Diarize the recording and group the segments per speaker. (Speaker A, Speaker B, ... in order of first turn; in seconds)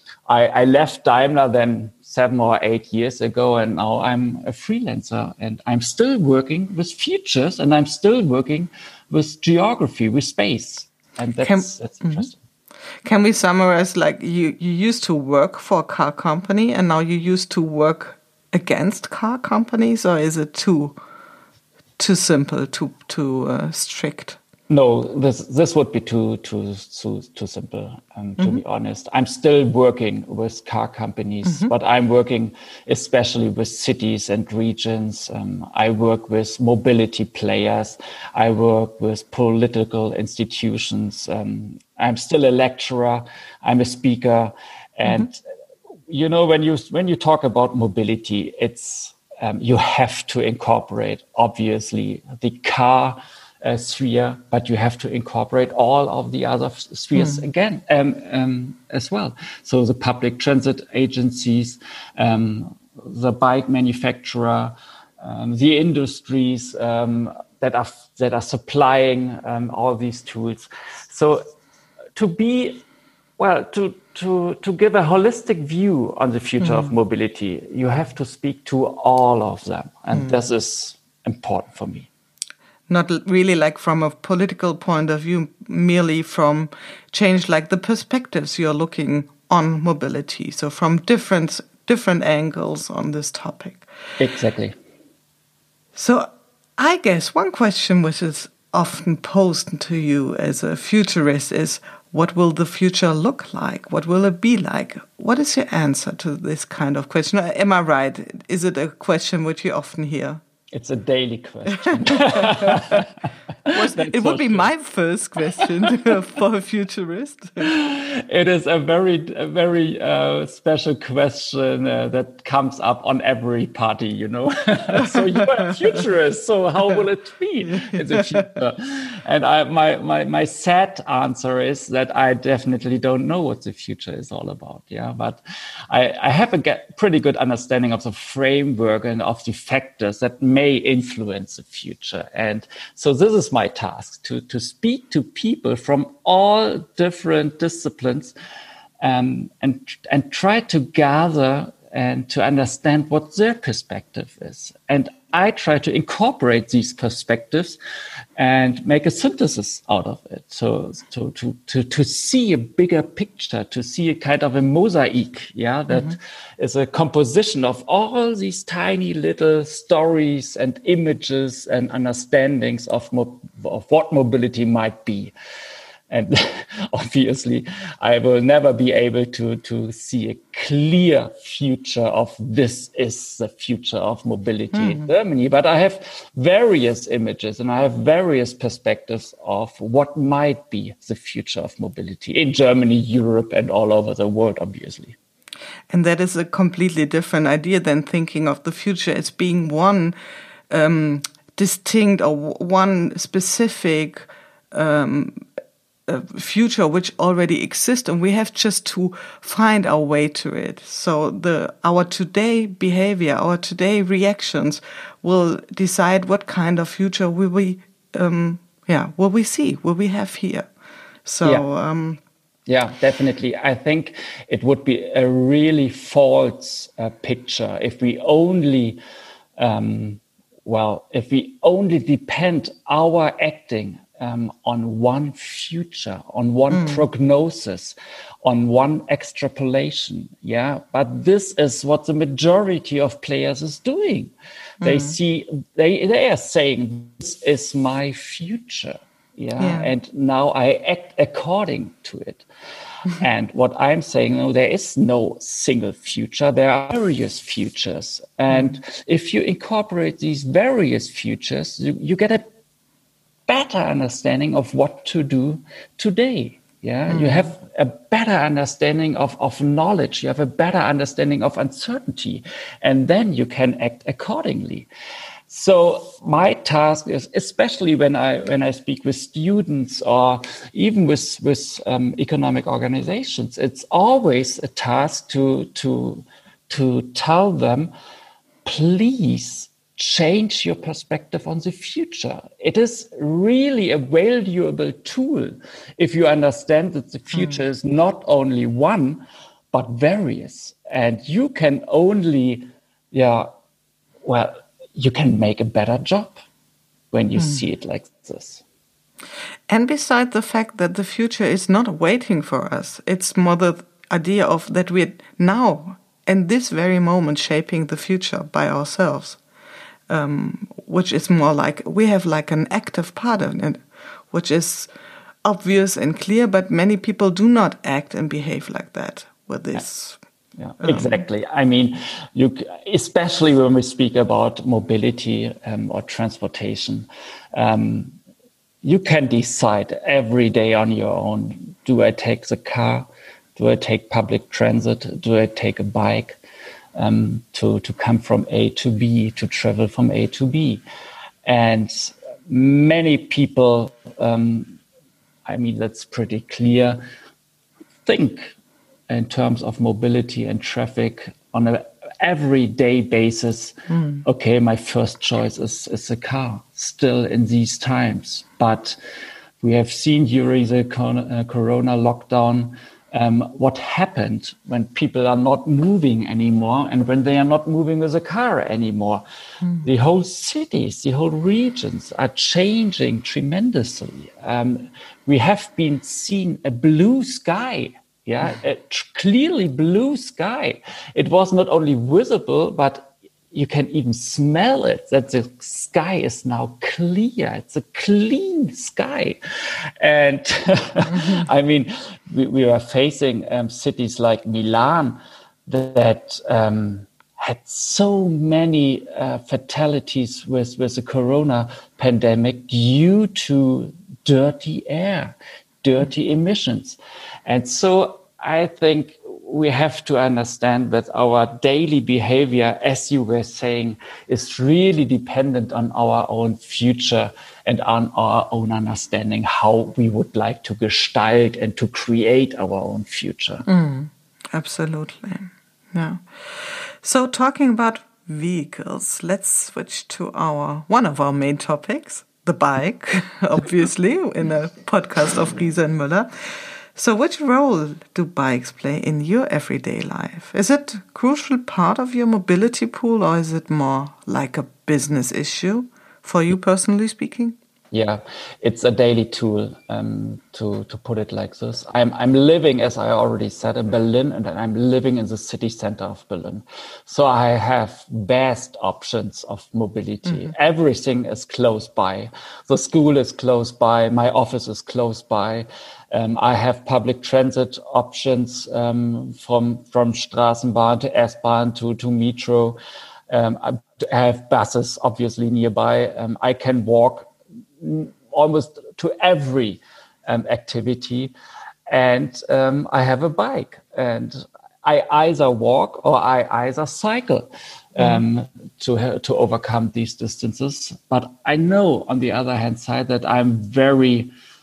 Speaker A: 0.3-12.4, 24.7-45.4, 46.1-71.4, 72.2-72.8, 73.4-82.1, 94.2-94.7, 110.7-114.7, 117.6-148.3, 149.0-157.8, 158.4-175.3, 176.1-195.2, 222.7-229.0, 229.6-252.4, 253.1-262.4, 263.5-274.9, 275.5-287.9, 288.6-303.5, 304.2-306.4, 307.1-308.6, 330.6-338.2, 338.8-346.4, 346.9-350.8, 351.4-354.8, 355.4-357.0, 358.0-358.5, 359.1-369.0, 369.6-379.2, 379.8-399.4, 400.0-433.6, 457.9-482.8, 483.3-491.3, 491.9-504.3
Speaker B: 11.4-12.3, 13.0-20.9, 22.0-24.4, 31.4-31.7, 57.1-57.4, 76.6-76.9, 80.1-80.4, 82.9-93.8, 95.9-110.4, 111.8-113.0, 113.7-117.7, 125.0-125.7, 127.9-128.4, 184.7-185.1, 195.9-200.1, 200.7-205.4, 206.1-220.7, 221.2-222.2, 236.7-237.0, 244.8-245.2, 249.6-249.9, 258.5-258.7, 267.1-267.5, 297.3-297.6, 309.7-319.4, 320.1-324.9, 325.4-330.2, 330.8-331.2, 363.9-364.2, 401.1-401.4, 433.6-457.6